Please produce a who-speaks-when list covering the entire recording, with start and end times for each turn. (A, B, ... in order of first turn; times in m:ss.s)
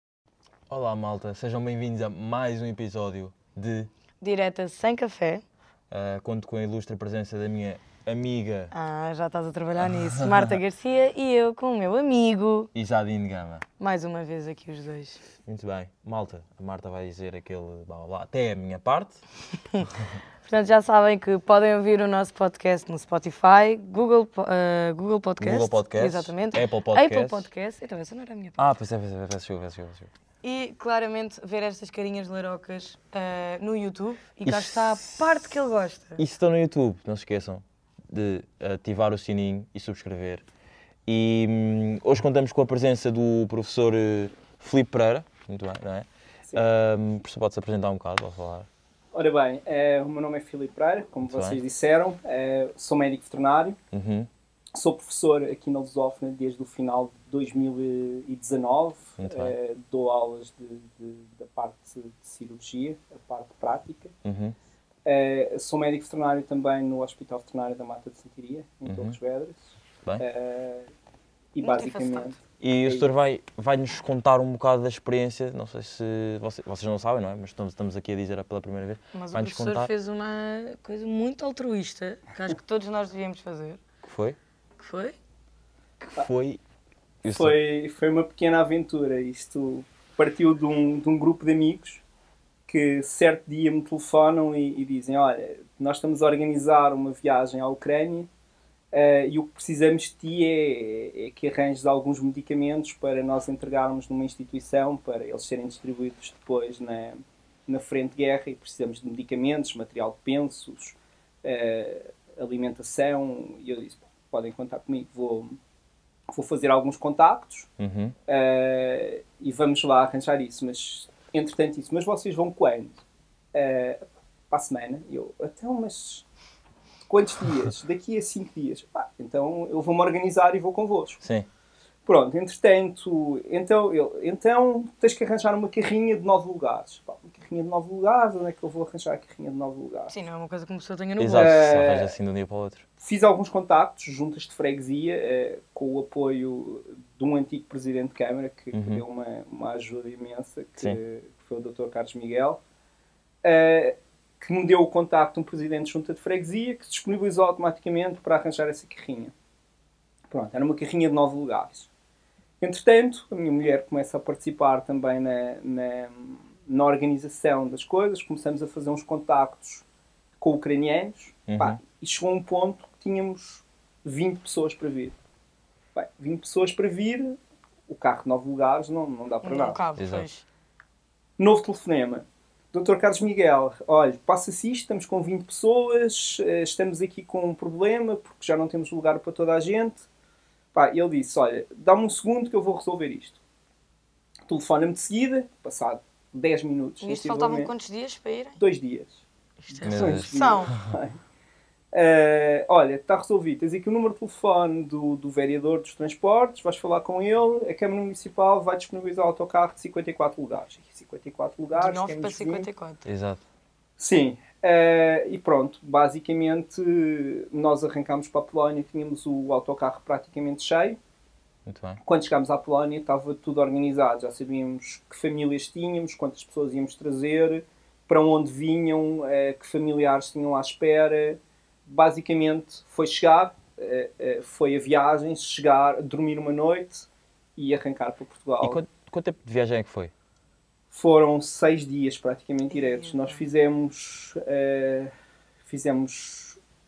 0:00.7-0:03.9 A
0:04.2-0:05.4 B
0:05.9-0:08.7 A
0:08.7-0:12.7 B
0:12.7-0:13.6 A
0:13.8-0:15.2 B
0:15.4-0:19.2 A
0:20.4-0:28.7 B
0:25.4-0:27.5 A
0:28.6-0:30.1 A
0:30.4-0:36.2 B
0:34.5-0:35.2 A
0:36.2-0:40.4 A
0:41.1-0:48.7 A
0:49.1-0:53.8 C
0:51.2-0:51.6 A
0:53.9-0:54.3 A
0:54.7-1:04.1 C
0:59.2-0:59.5 A
1:04.2-1:04.6 A
1:05.0-1:10.9 C
1:08.8-1:09.2 A
1:11.5-1:13.1 C
1:11.6-1:12.4 B
1:12.6-1:19.9 A
1:19.1-1:23.8 B
1:24.0-1:24.4 A
1:24.8-1:25.2 B
1:26.2-1:26.6 A
1:27.2-1:27.6 A
1:27.2-1:32.0 C
1:32.6-1:38.3 C
1:38.9-1:55.6 C
1:56.3-1:57.7 C
1:57.8-1:58.2 A
1:58.3-2:03.0 C
2:03.5-2:06.2 C
2:07.1-2:11.2 C
2:11.2-2:11.5 A
2:12.0-2:20.1 C
2:20.1-2:21.7 B
2:21.2-2:22.8 A
2:21.3-2:22.2 C
2:23.0-2:32.6 C
2:28.7-2:29.0 A
2:33.4-2:39.3 C
2:40.3-2:41.9 C
2:42.6-2:49.8 C
2:50.4-2:55.2 C
2:51.5-2:51.8 A
2:55.9-2:59.8 C
2:59.4-3:00.4 B
3:00.0-3:00.3 A
3:01.4-3:10.0 C
3:10.7-3:13.4 C
3:14.5-3:17.7 C
3:17.0-3:18.6 B
3:18.6-3:21.2 C
3:19.6-3:20.7 B
3:19.8-3:20.7 A
3:21.9-3:32.7 C
3:31.7-3:33.1 B
3:33.0-3:33.4 A
3:34.0-3:41.0 C
3:41.6-3:42.0 A
3:42.0-3:58.8 C
3:58.6-4:00.1 A
4:00.9-4:05.1 C
4:02.7-4:03.4 B
4:05.6-4:06.6 C